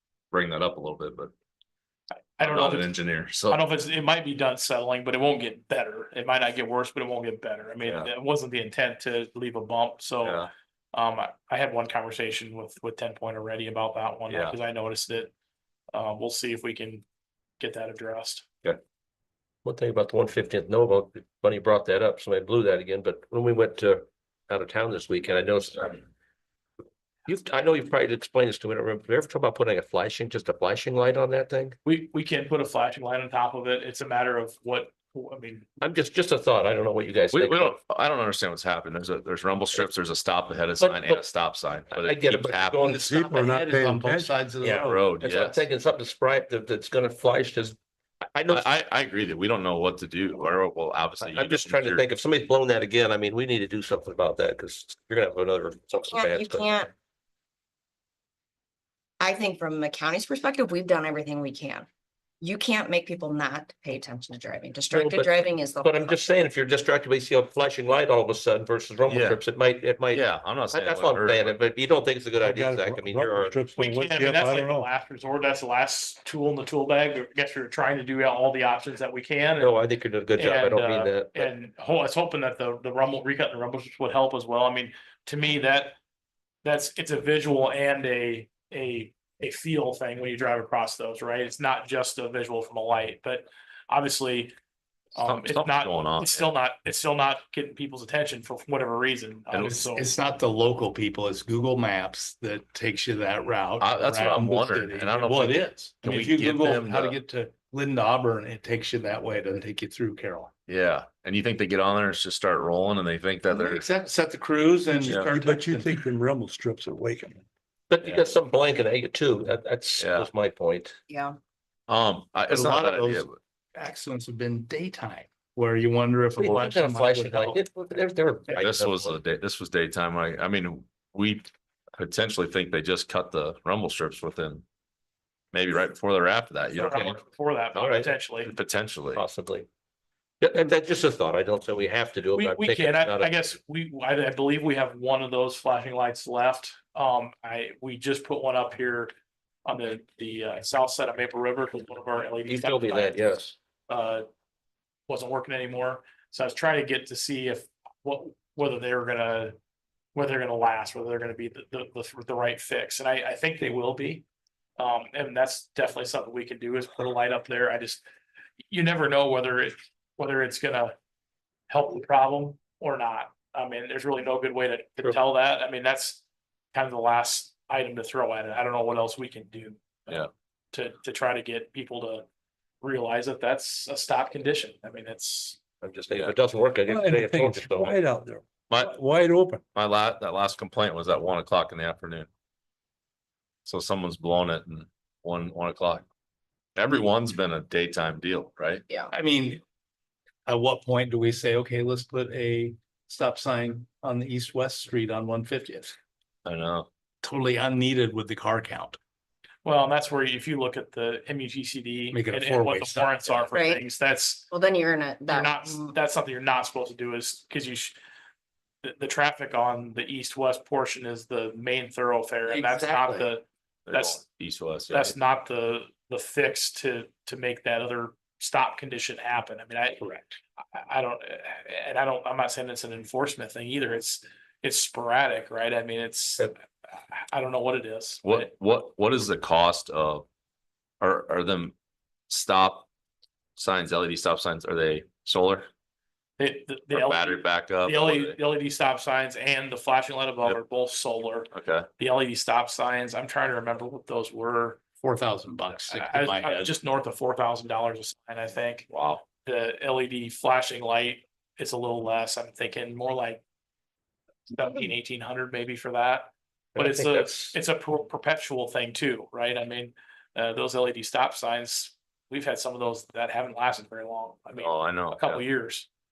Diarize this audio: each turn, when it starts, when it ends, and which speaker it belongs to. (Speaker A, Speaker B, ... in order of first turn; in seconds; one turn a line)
Speaker A: 0.3-1.3
Speaker B: 2.4-2.9
Speaker A: 2.4-3.6
Speaker B: 3.5-15.3
Speaker A: 7.8-8.1
Speaker A: 10.2-10.5
Speaker A: 14.3-14.6
Speaker B: 15.9-17.0
Speaker B: 17.6-18.5
Speaker C: 19.6-26.0
Speaker C: 27.3-31.8
Speaker B: 31.9-35.7
Speaker C: 35.8-37.8
Speaker A: 37.3-43.0
Speaker C: 40.8-41.3
Speaker C: 41.9-43.2
Speaker D: 42.8-45.0
Speaker E: 43.0-44.7
Speaker C: 44.6-47.8
Speaker A: 44.7-45.7
Speaker C: 48.3-48.7
Speaker A: 48.5-52.0
Speaker C: 51.2-56.7
Speaker F: 56.1-56.9
Speaker F: 59.2-61.9
Speaker F: 62.4-66.4
Speaker C: 64.9-73.6
Speaker A: 69.1-69.4
Speaker A: 70.1-71.6
Speaker E: 72.4-74.9
Speaker B: 73.7-86.0
Speaker C: 79.6-81.5
Speaker B: 86.6-94.5
Speaker B: 95.2-100.1
Speaker A: 95.2-96.5
Speaker A: 99.5-99.8
Speaker D: 99.6-110.5
Speaker A: 103.8-107.2
Speaker A: 110.7-113.9
Speaker D: 113.5-116.0
Speaker E: 115.1-117.4
Speaker C: 117.9-121.0
Speaker A: 120.0-120.3
Speaker F: 121.1-121.4
Speaker A: 121.9-123.4
Speaker D: 122.5-127.6
Speaker C: 126.4-129.2
Speaker A: 128.6-131.5
Speaker A: 132.0-134.6
Speaker A: 135.5-137.2
Speaker B: 136.7-138.5
Speaker C: 137.7-138.1
Speaker A: 138.4-139.2
Speaker C: 139.1-139.7
Speaker C: 140.4-143.3
Speaker B: 142.3-149.1
Speaker B: 149.7-154.3
Speaker C: 152.5-153.5
Speaker B: 155.1-159.6
Speaker B: 160.2-164.2
Speaker B: 164.8-168.0
Speaker B: 168.7-170.9
Speaker B: 171.7-176.2
Speaker B: 176.7-182.2
Speaker B: 182.8-185.6
Speaker C: 185.8-188.0
Speaker D: 186.9-189.6
Speaker E: 187.1-187.5
Speaker A: 188.7-189.0
Speaker A: 189.7-192.3
Speaker A: 193.7-196.1
Speaker A: 196.8-198.8
Speaker D: 199.1-199.6
Speaker D: 200.5-206.0
Speaker A: 206.4-206.9
Speaker D: 207.2-209.0
Speaker B: 209.7-214.5
Speaker D: 212.1-213.5
Speaker F: 213.5-213.8
Speaker F: 214.5-216.0
Speaker B: 215.3-218.0
Speaker B: 218.8-224.3
Speaker F: 222.7-223.2
Speaker A: 223.9-225.2
Speaker B: 224.9-238.5
Speaker A: 238.2-240.2
Speaker A: 241.0-241.8
Speaker A: 242.3-242.9
Speaker A: 243.6-245.7
Speaker B: 246.4-254.8
Speaker A: 246.9-248.4
Speaker A: 251.5-251.9
Speaker D: 255.0-256.7
Speaker B: 255.9-263.4
Speaker A: 258.9-259.2
Speaker B: 264.5-275.9
Speaker C: 266.8-267.6
Speaker A: 274.6-275.4